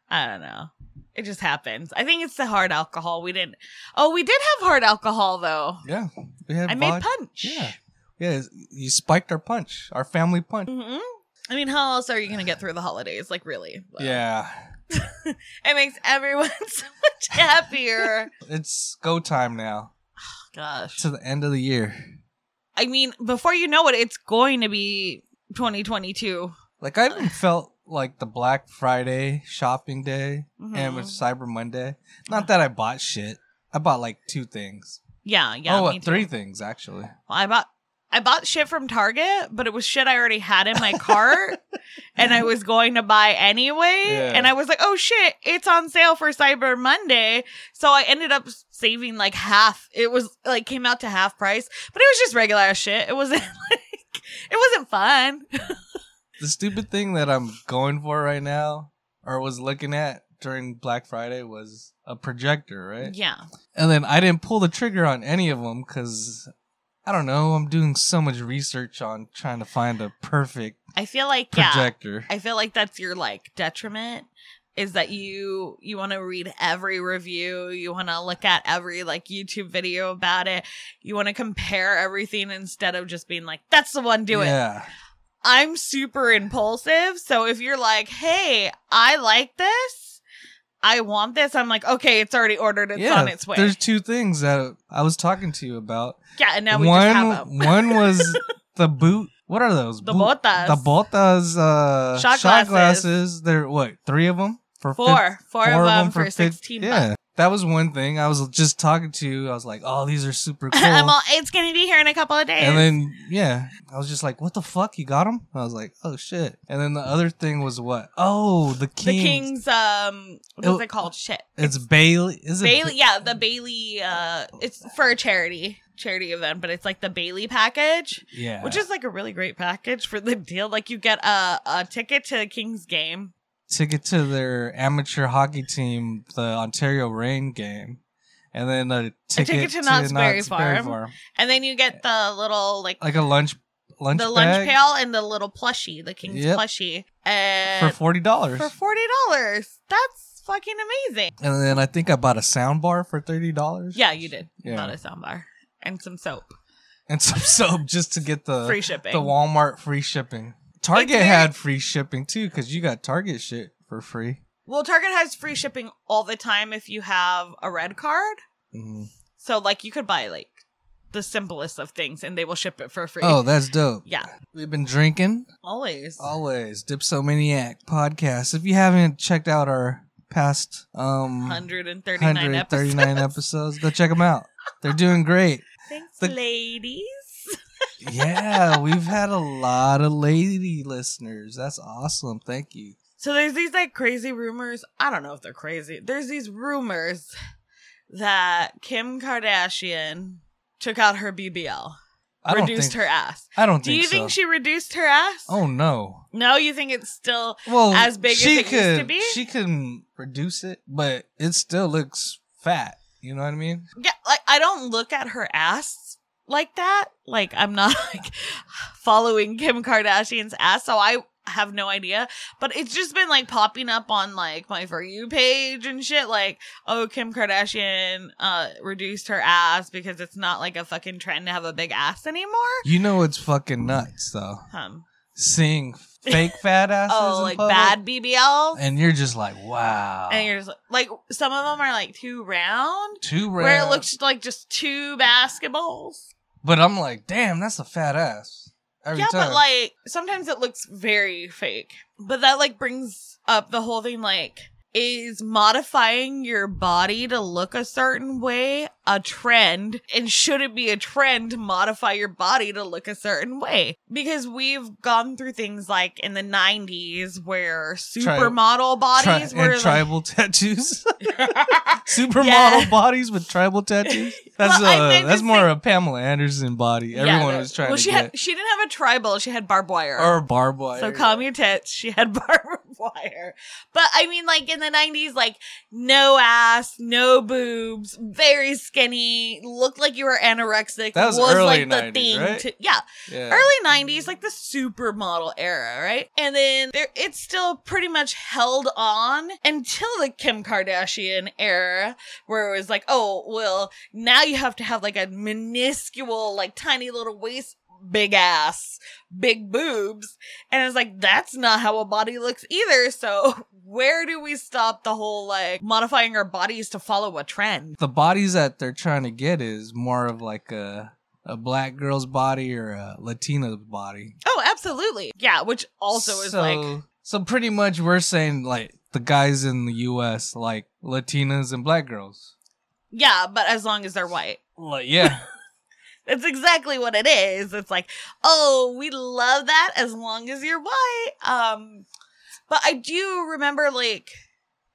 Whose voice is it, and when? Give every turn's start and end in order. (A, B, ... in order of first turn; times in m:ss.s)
0:00.1-0:05.8 A
0:05.8-0:10.7 B
0:06.7-0:07.7 A
0:10.7-0:14.2 A
0:14.0-0:14.7 B
0:14.9-0:18.3 A
0:18.3-0:19.9 B
0:20.5-0:21.0 A
0:21.0-0:22.0 B
0:22.8-0:26.6 A
0:26.8-0:35.0 B
0:27.1-0:27.3 A
0:30.6-0:31.2 A
0:35.2-0:36.3 A
0:35.7-0:37.1 B
0:37.3-0:41.6 A
0:40.9-0:41.4 B
0:42.2-0:55.8 A
0:44.0-0:44.5 B
0:56.4-1:03.1 B
1:03.0-1:03.4 A
1:03.7-1:06.5 B
1:07.0-1:10.8 B
1:11.0-1:24.6 A
1:11.5-1:12.3 B
1:24.3-1:24.9 B
1:25.4-1:30.2 A
1:30.8-1:33.8 A
1:32.9-1:36.2 B
1:36.4-1:38.4 A
1:36.7-1:51.1 B
1:40.0-1:40.9 A
1:42.1-1:43.1 A
1:45.0-1:47.1 A
1:50.7-1:52.9 A
1:52.6-1:59.5 B
1:59.0-2:01.8 A
2:01.6-2:03.0 B
2:02.6-2:13.3 A
2:08.3-2:08.8 B
2:13.7-2:18.0 B
2:18.5-2:21.1 B
2:19.3-2:23.0 A
2:23.0-2:24.8 B
2:24.1-2:28.0 A
2:26.3-2:26.6 B
2:27.8-2:28.7 B
2:28.5-2:31.3 A
2:31.4-2:34.0 B
2:33.9-2:36.5 A
2:34.6-2:35.0 B
2:37.1-2:44.4 B
2:38.6-2:39.3 A
2:40.9-2:41.5 A
2:44.6-2:48.4 A
2:48.7-2:49.1 B
2:49.4-2:53.4 A
2:53.2-2:55.5 B
2:54.0-2:54.3 A
2:55.6-2:56.3 A
2:56.2-3:01.6 B
3:01.4-3:03.4 A
3:02.2-3:05.6 B
3:05.9-3:07.2 A
3:08.0-3:13.0 B
3:08.3-3:09.0 A
3:13.2-3:17.3 A
3:18.1-3:22.0 A
3:22.4-3:23.0 B
3:22.5-3:25.5 A
3:23.5-3:24.4 B
3:25.5-3:26.2 B
3:26.3-3:29.4 A
3:27.7-3:33.8 B
3:34.0-3:52.9 A
3:52.8-3:54.6 B
3:54.7-3:55.0 A
3:55.3-3:58.0 B
3:56.3-3:56.6 A
3:57.1-3:58.8 A
3:58.7-4:00.5 B
4:00.3-4:06.3 A
4:03.2-4:04.0 B
4:06.6-4:09.6 B
4:09.1-4:30.1 A
4:28.2-4:28.6 B
4:29.2-4:38.3 B
4:31.2-4:33.0 A
4:34.1-4:35.7 A
4:37.1-4:40.4 A
4:40.2-4:41.4 B
4:40.9-5:18.0 A
4:51.1-4:52.7 B
4:53.3-4:53.7 B
5:18.0-5:24.4 B
5:24.4-5:26.9 A
5:26.1-5:32.5 B
5:33.1-5:34.6 A
5:34.8-5:35.4 B
5:36.2-5:42.0 A
5:42.7-5:44.3 A